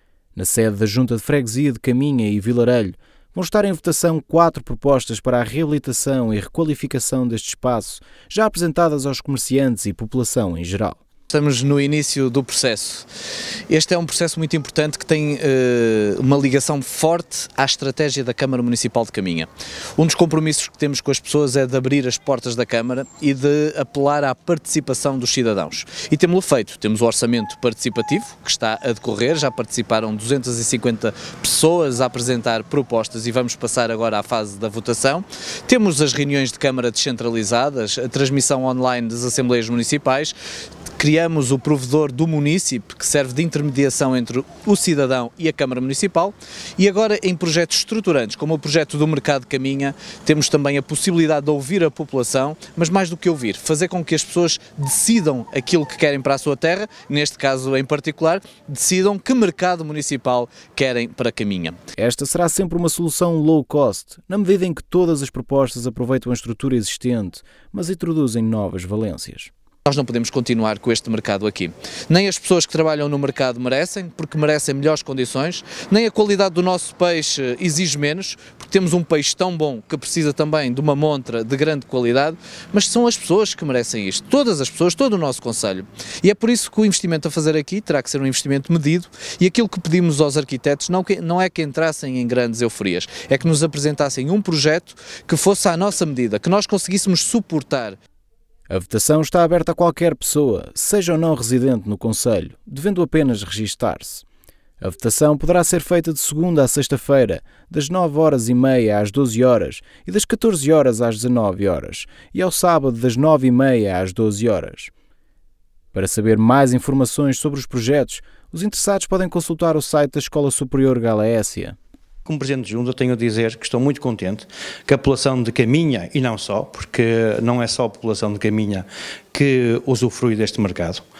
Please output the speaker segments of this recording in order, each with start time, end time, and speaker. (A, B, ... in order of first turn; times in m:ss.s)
0:00.4-0:11.0 A
0:11.3-0:13.0 B
0:13.7-0:40.3 B
0:41.0-1:01.8 B
1:02.0-1:09.5 A
1:09.9-1:38.0 B
1:38.7-1:44.2 A
1:44.8-1:54.9 A
1:55.9-2:01.8 A
2:02.3-2:11.0 C